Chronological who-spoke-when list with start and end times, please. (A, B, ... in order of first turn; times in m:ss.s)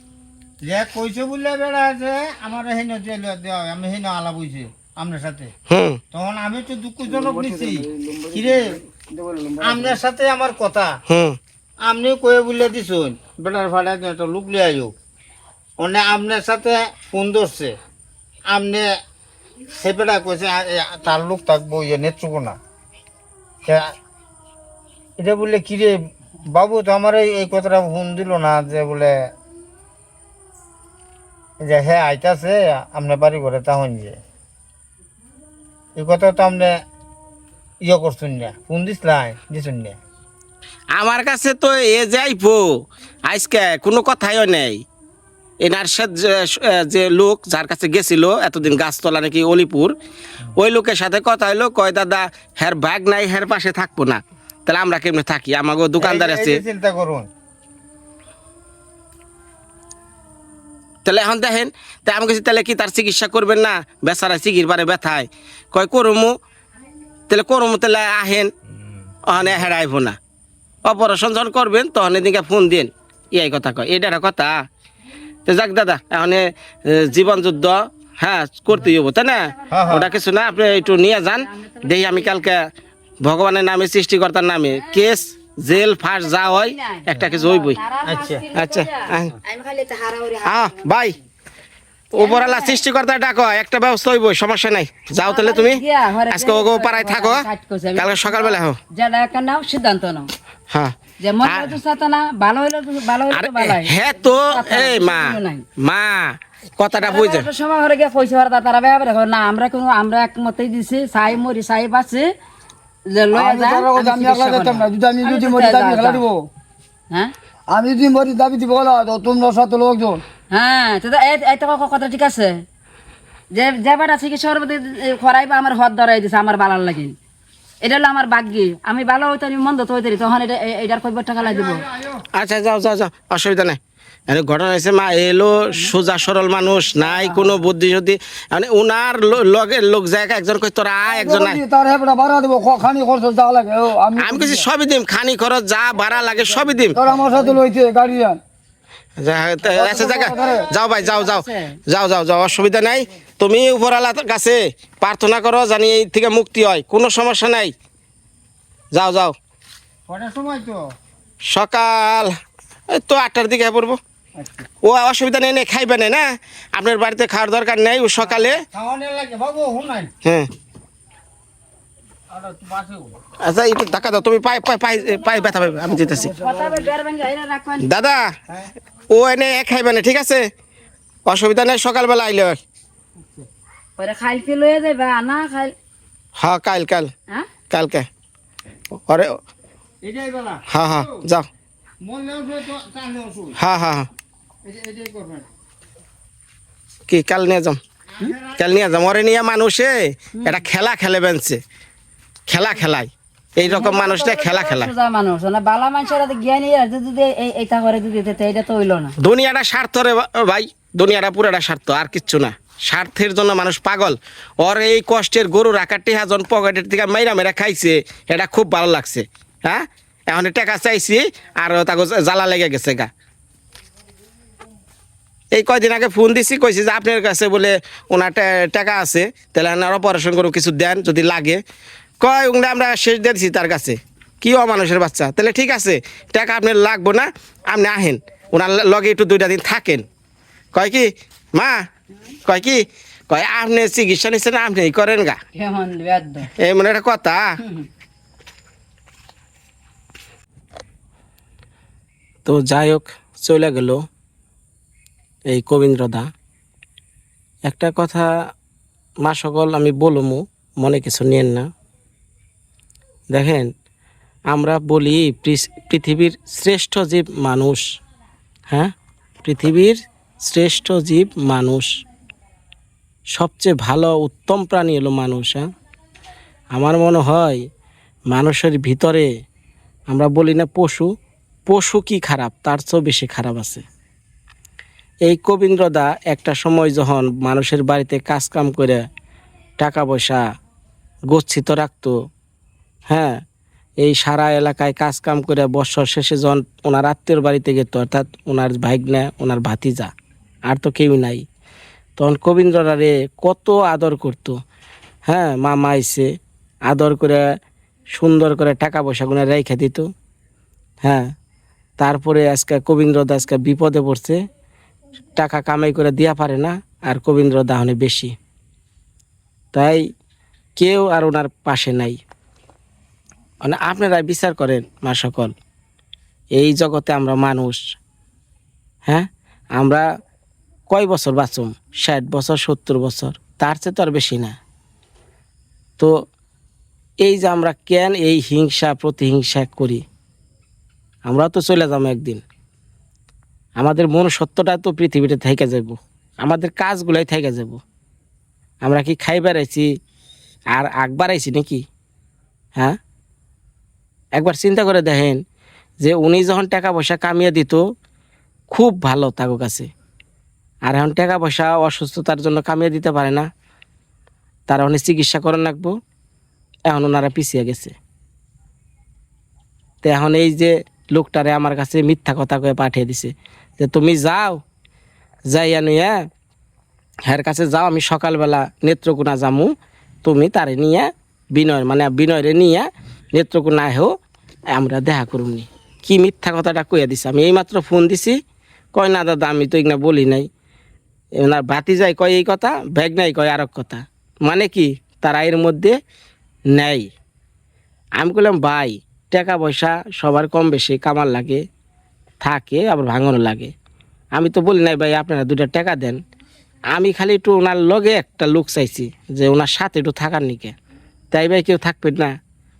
0:00.6-0:05.5 A
0:05.7-0:06.0 B
0:06.1-0:08.8 A
0:07.0-0:10.0 C
0:09.6-0:11.0 A
0:11.1-0:11.4 B
0:11.8-0:14.9 A
0:15.8-0:17.8 A
0:18.5-0:18.9 A
0:19.8-0:22.6 A
0:23.6-0:23.9 A
0:25.2-0:29.3 A
0:31.6-0:34.2 A
0:36.0-0:36.8 A
0:37.8-0:40.0 A
0:41.0-0:42.7 B
0:43.3-0:44.8 B
0:45.6-0:49.9 B
0:50.6-0:56.6 B
0:56.0-0:57.3 A
1:01.0-1:06.3 B
1:07.3-1:08.5 B
1:09.3-1:10.2 B
1:09.4-1:09.7 A
1:10.8-1:14.6 B
1:15.4-1:22.6 B
1:18.8-1:22.4 D
1:19.7-1:20.1 A
1:23.2-1:27.8 B
1:24.7-1:25.1 D
1:25.7-1:31.2 D
1:28.0-1:28.4 A
1:28.5-1:29.4 B
1:30.4-1:31.2 B
1:32.2-1:37.4 B
1:32.2-1:32.8 D
1:35.2-1:40.3 D
1:38.0-1:38.8 B
1:40.7-1:41.8 B
1:41.2-1:45.6 D
1:43.3-1:47.5 B
1:47.0-1:52.3 D
1:53.1-1:56.2 D
1:53.3-1:56.4 C
1:57.7-2:00.2 C
2:00.5-2:02.6 D
2:03.5-2:07.1 D
2:07.8-2:11.8 D
2:11.4-2:12.2 A
2:12.3-2:21.6 B
2:17.0-2:17.6 D
2:21.0-2:24.6 C
2:24.2-2:27.0 B
2:26.8-2:27.2 D
2:26.9-2:28.4 C
2:29.2-2:37.7 B
2:29.7-2:30.6 C
2:30.3-2:31.8 D
2:38.9-2:39.3 B
2:40.1-2:40.8 A
2:41.5-2:42.3 B
2:42.9-2:44.0 B
2:44.4-2:44.7 A
2:44.8-2:48.6 B
2:48.2-2:50.1 A
2:52.3-2:53.2 A
2:53.4-2:56.3 B
2:55.9-2:57.9 D
2:56.3-2:56.8 C
2:57.8-2:58.3 B
2:59.1-3:00.5 B
3:01.3-3:02.6 B
3:04.0-3:05.7 D
3:06.4-3:07.1 B
3:07.7-3:08.1 B
3:08.9-3:09.4 B
3:10.0-3:11.2 A
3:10.7-3:11.5 B
3:12.0-3:13.6 A
3:13.6-3:14.1 B
3:14.6-3:15.4 A
3:17.1-3:17.8 B
3:18.1-3:19.1 A
3:18.6-3:21.6 B
3:20.4-3:20.6 D
3:22.5-3:24.9 B
3:23.6-3:29.1 D
3:29.2-3:43.1 B
3:45.5-3:51.6 B
3:52.2-4:00.0 B
4:00.7-4:01.9 B
4:02.4-4:05.4 B
4:05.5-4:06.5 D
4:06.6-4:07.5 B
4:07.6-4:07.9 D
4:12.4-4:14.0 B
4:15.5-4:16.3 B
4:17.6-4:18.3 B
4:19.2-4:21.7 B
4:23.3-4:23.7 B
4:24.5-4:27.8 B
4:28.7-4:31.9 B
4:33.3-4:35.7 B
4:36.7-4:37.6 B
4:38.3-4:39.3 B
4:40.1-4:41.1 B
4:41.7-4:43.8 B
4:45.2-4:49.0 B
4:49.8-4:50.4 B
4:51.3-4:52.1 B
4:53.1-4:53.4 B
4:54.0-5:00.1 B
5:00.7-5:01.4 B
5:02.2-5:04.6 B
5:05.3-5:06.3 B
5:06.9-5:07.4 B
5:08.1-5:10.1 B
5:11.0-5:11.3 B
5:12.0-5:14.4 B
5:15.4-5:18.3 B
5:19.7-5:20.0 B
5:20.8-5:22.2 B
5:23.6-5:25.5 B
5:26.5-5:27.8 B
5:29.1-5:30.1 B
5:30.9-5:34.6 B
5:37.2-5:40.0 B
5:41.3-5:42.4 B
5:43.8-5:47.8 B
5:48.8-5:49.9 B
5:50.7-5:51.8 B
5:54.3-5:55.4 B
5:56.0-5:57.8 B
5:58.7-5:59.9 B
6:00.9-6:03.5 B
6:04.7-6:05.9 B
6:06.9-6:07.9 B
6:10.0-6:14.6 B
6:15.5-6:16.2 B
6:17.3-6:19.7 B
6:20.2-6:24.1 B
6:24.7-6:28.4 B
6:28.9-6:30.5 B
6:31.4-6:36.0 B
6:36.7-6:37.1 B
6:38.2-6:41.6 B
6:42.4-6:43.7 B
6:44.3-6:46.2 B
6:46.9-6:50.7 B
6:51.3-6:52.3 B